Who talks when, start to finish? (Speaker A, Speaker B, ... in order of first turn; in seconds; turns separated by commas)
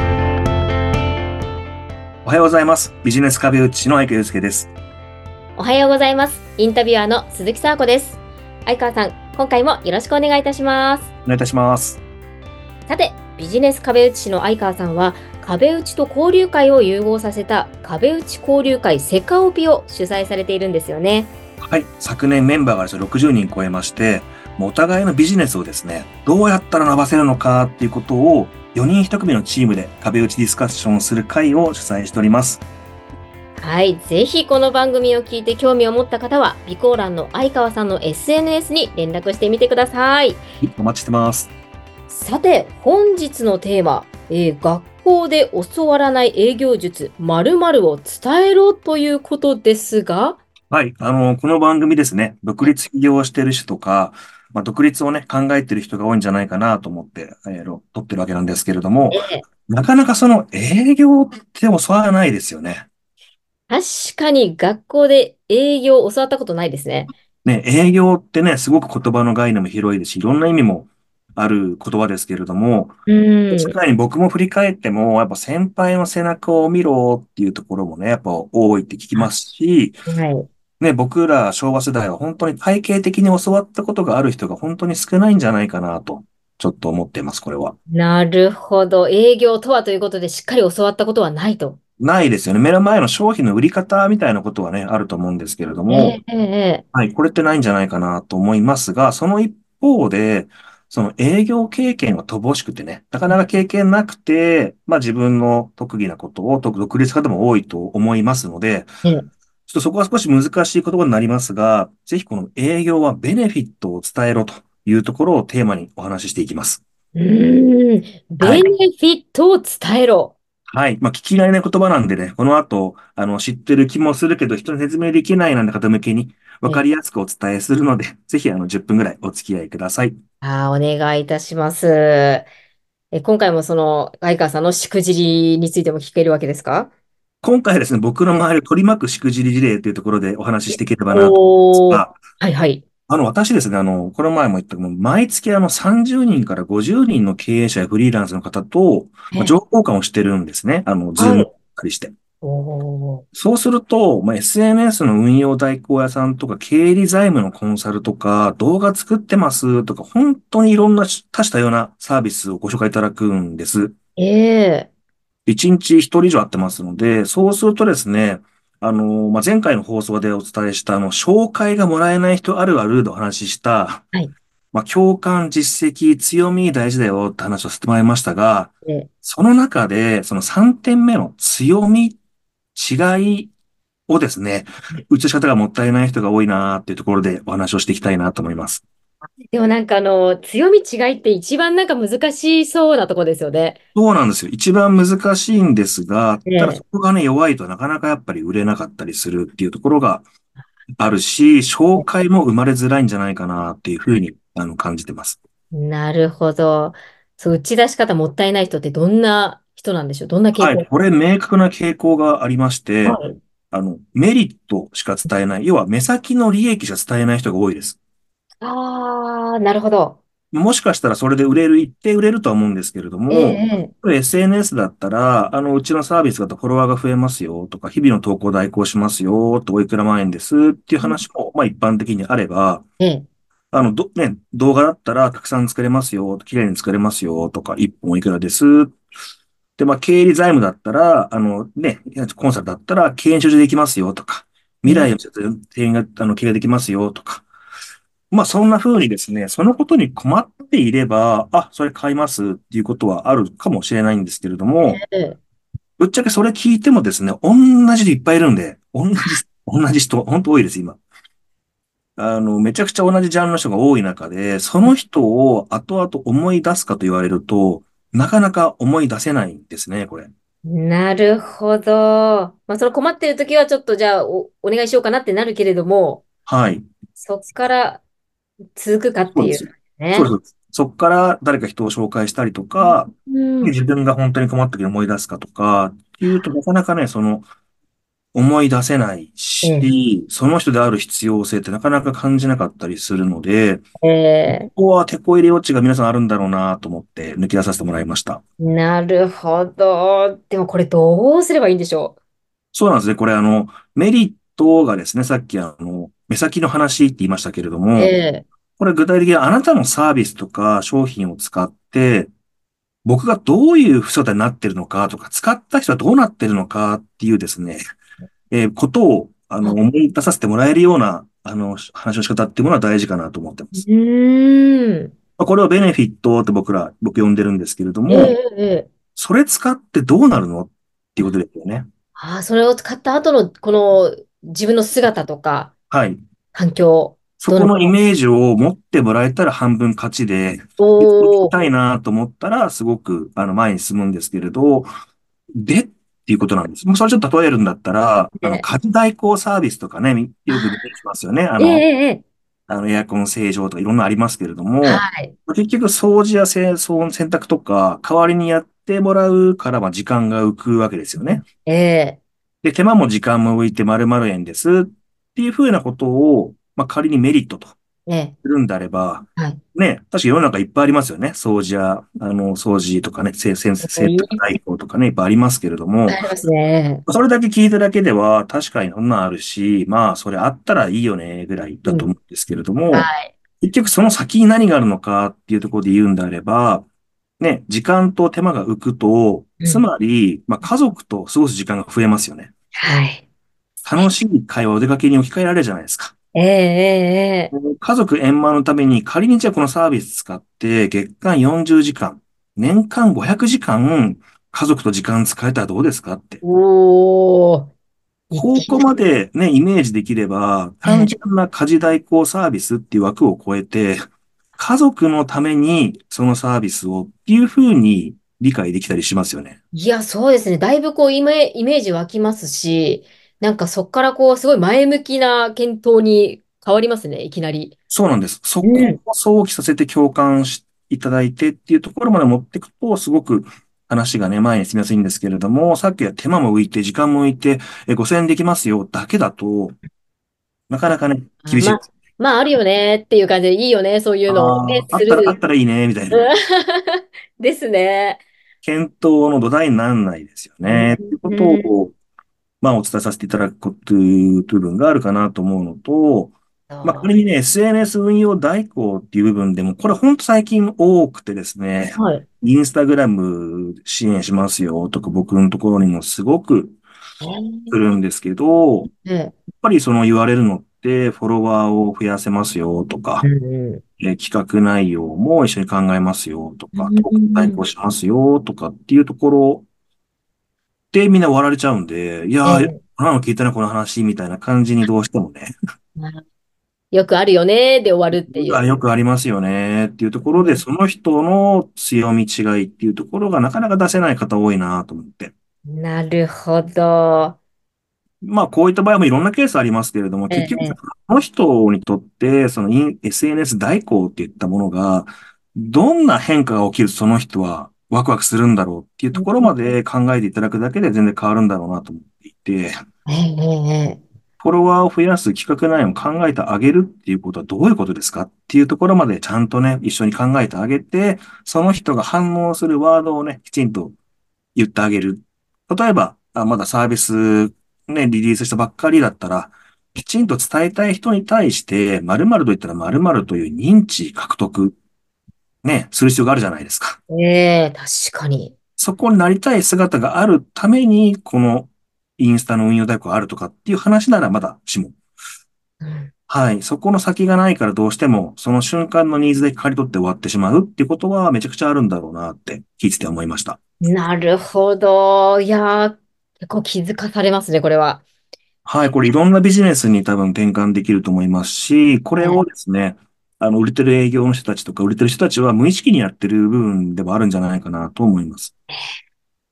Speaker A: 2.2-4.7, Speaker B: 5.6-11.1, Speaker A: 11.2-12.0, Speaker B: 12.9-21.3, Speaker A: 21.7-32.6, Speaker B: 33.6-40.4, Speaker A: 40.6-41.5, Speaker B: 42.1-50.4, Speaker A: 50.7-62.9, Speaker B: 59.1-59.4, Speaker B: 63.7-67.1, Speaker A: 67.5-73.0, Speaker B: 73.1-73.8, Speaker A: 73.5-80.0, Speaker B: 80.1-80.5, Speaker A: 80.8-87.8, Speaker B: 87.9-91.8, Speaker A: 92.0-96.2, Speaker B: 95.9-96.8, Speaker A: 96.9-108.9, Speaker A: 109.7-116.8, Speaker B: 117.2-120.3, Speaker A: 118.4-118.7, Speaker A: 120.7-130.2, Speaker B: 130.4-132.5, Speaker B: 133.1-136.9, Speaker A: 137.4-142.2, Speaker B: 140.7-142.8, Speaker A: 143.1-152.1, Speaker B: 151.2-151.5, Speaker B: 152.4-153.2, Speaker A: 153.3-163.9, Speaker B: 164.2-164.9, Speaker A: 165.5-174.1, Speaker A: 174.7-182.2, Speaker A: 182.8-183.5, Speaker A: 184.1-188.8, Speaker B: 189.5-193.8, Speaker A: 193.9-200.3, Speaker B: 196.5-196.8, Speaker A: 201.0-205.4, Speaker B: 205.7-210.8, Speaker A: 210.6-218.0, Speaker B: 213.1-213.4, Speaker B: 218.6-220.2, Speaker A: 220.5-232.9, Speaker B: 223.3-223.9, Speaker B: 233.0-233.3, Speaker A: 233.7-239.0, Speaker A: 239.8-247.5, Speaker B: 244.9-245.1, Speaker A: 248.3-255.0, Speaker B: 254.8-255.4, Speaker A: 256.0-261.0, Speaker A: 262.2-270.3, Speaker B: 270.6-276.2, Speaker A: 276.5-276.9, Speaker B: 277.2-278.0, Speaker B: 278.8-280.3, Speaker A: 279.3-287.5, Speaker B: 282.8-283.7, Speaker A: 288.3-293.9, Speaker B: 289.6-289.9, Speaker B: 294.0-294.7, Speaker A: 294.5-298.4, Speaker B: 298.6-302.2, Speaker A: 302.7-308.1, Speaker B: 308.0-308.5, Speaker A: 308.8-312.3, Speaker A: 313.1-317.8, Speaker A: 318.5-323.9, Speaker B: 323.8-325.1, Speaker A: 325.4-328.4, Speaker B: 328.1-328.9, Speaker A: 329.2-331.9, Speaker B: 332.2-335.7, Speaker A: 335.9-336.2, Speaker B: 336.5-337.9, Speaker A: 337.4-344.9, Speaker B: 340.8-341.5, Speaker A: 345.6-351.9, Speaker B: 351.6-352.2, Speaker A: 352.7-361.5, Speaker B: 354.8-355.3, Speaker B: 361.2-362.2, Speaker A: 362.6-367.8, Speaker B: 368.1-368.4, Speaker A: 368.4-376.2, Speaker B: 373.8-374.4, Speaker B: 376.1-377.0, Speaker A: 377.1-383.1, Speaker B: 382.9-383.3, Speaker A: 383.6-386.9, Speaker A: 387.4-392.5, Speaker B: 392.8-393.2, Speaker A: 393.9-396.1, Speaker B: 396.3-397.5, Speaker A: 397.5-406.4, Speaker B: 406.4-407.7, Speaker B: 408.3-408.9, Speaker A: 408.4-414.0, Speaker B: 410.9-411.1, Speaker A: 414.6-419.6, Speaker B: 419.7-427.7, Speaker A: 427.9-439.8, Speaker B: 428.6-429.0, Speaker A: 440.7-441.9, Speaker B: 441.4-445.4, Speaker A: 444.3-446.3, Speaker B: 446.1-448.2, Speaker A: 448.6-451.9, Speaker B: 450.6-451.7, Speaker A: 452.6-466.8, Speaker B: 456.7-457.1, Speaker B: 462.0-462.2, Speaker B: 467.2-467.8, Speaker A: 467.7-468.9, Speaker B: 468.9-469.3, Speaker A: 469.6-473.3, Speaker B: 473.2-473.8, Speaker A: 474.0-479.7, Speaker B: 476.8-477.6, Speaker A: 480.9-485.6, Speaker B: 482.4-482.8, Speaker B: 486.0-486.2, Speaker B: 486.9-488.8, Speaker A: 488.3-495.3, Speaker B: 490.4-490.6, Speaker B: 495.7-497.4, Speaker A: 498.2-512.8, Speaker B: 500.3-500.8, Speaker B: 509.1-509.7, Speaker B: 513.1-514.0, Speaker A: 514.4-524.0, Speaker A: 524.6-534.8, Speaker A: 535.6-537.0, Speaker B: 537.1-538.5, Speaker A: 538.8-545.0, Speaker B: 545.8-546.1, Speaker A: 546.3-553.6, Speaker B: 553.8-558.0, Speaker A: 558.7-568.5, Speaker B: 562.2-562.4